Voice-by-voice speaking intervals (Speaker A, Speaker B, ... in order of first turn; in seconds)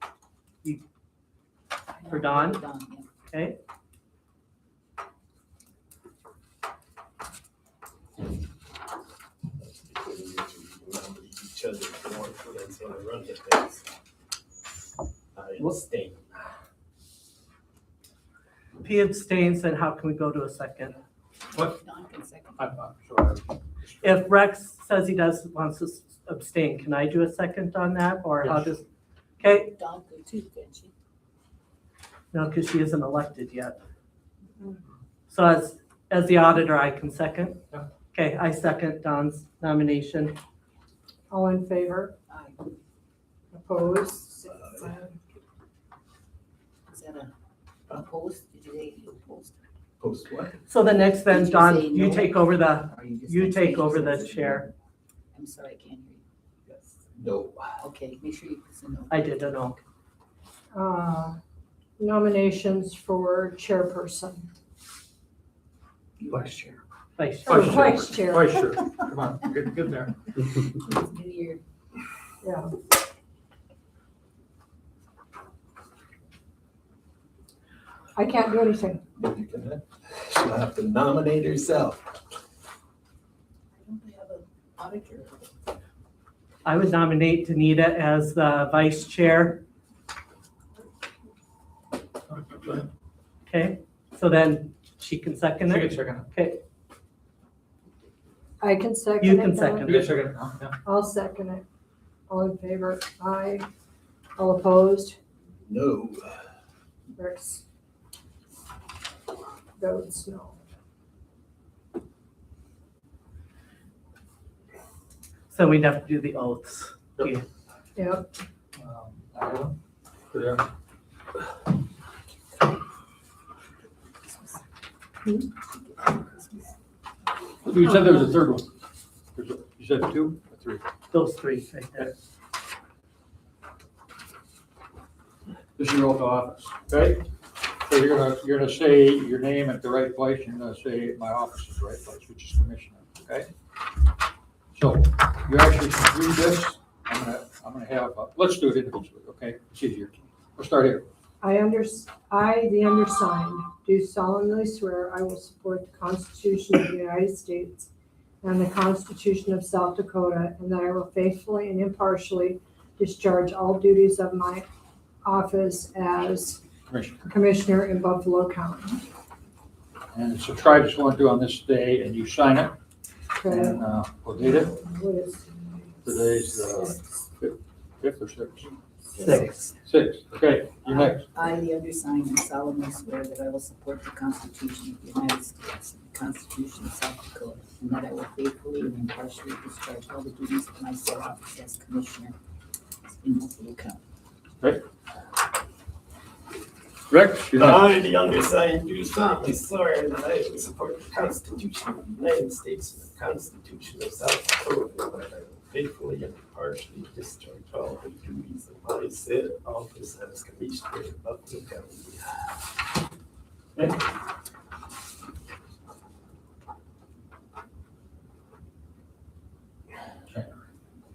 Speaker A: 1.9-3.1, 21.5-22.6, 29.5-30.9, 42.3-42.6, 46.9-47.3, 47.9-49.6, 51.2-54.7, 55.3-56.2, 57.8-59.8, 66.2-66.8, 70.8-71.6, 83.8-85.5, 126.0-126.7, 181.3-192.3, 193.1-194.0
Speaker B: 2.1-2.6, 3.3-3.6, 18.8-21.0, 24.0-28.8, 29.4-29.7, 32.3-33.8, 35.3-37.6, 38.1-40.4, 50.7-54.7, 59.1-59.8, 67.2-67.7, 86.6-89.6, 93.5-96.6, 99.2-100.1, 115.5-117.4, 131.1-132.1, 179.2-179.7
Speaker C: 9.6-13.8, 15.3-16.5, 50.0-50.5, 56.7-57.8, 79.2-82.2, 105.7-106.4, 197.5-212.5
Speaker D: 21.5-21.8, 22.6-24.2, 28.4-28.7, 66.3-66.7, 67.5-70.2, 92.3-92.8, 95.6-96.3, 99.8-100.8, 118.8-119.8, 120.3-120.7, 127.6-128.7, 129.3-130.8, 135.8-137.3, 137.8-143.5, 144.7-151.1, 166.9-167.3, 170.1-172.7, 173.5-174.7, 176.0-178.7, 179.2-181.3, 197.1-197.8, 220.3-220.6
Speaker E: 41.3-42.1, 43.5-45.2, 60.7-61.4, 62.0-64.5, 67.5-68.5, 72.4-72.7, 78.1-79.0, 98.6-100.1, 100.8-101.6, 102.3-103.7, 104.4-105.2, 107.2-107.6, 109.8-110.6, 118.0-118.3, 151.4-157.9, 158.4-164.7, 165.2-166.6, 167.2-169.0, 173.4-173.9, 174.4-177.0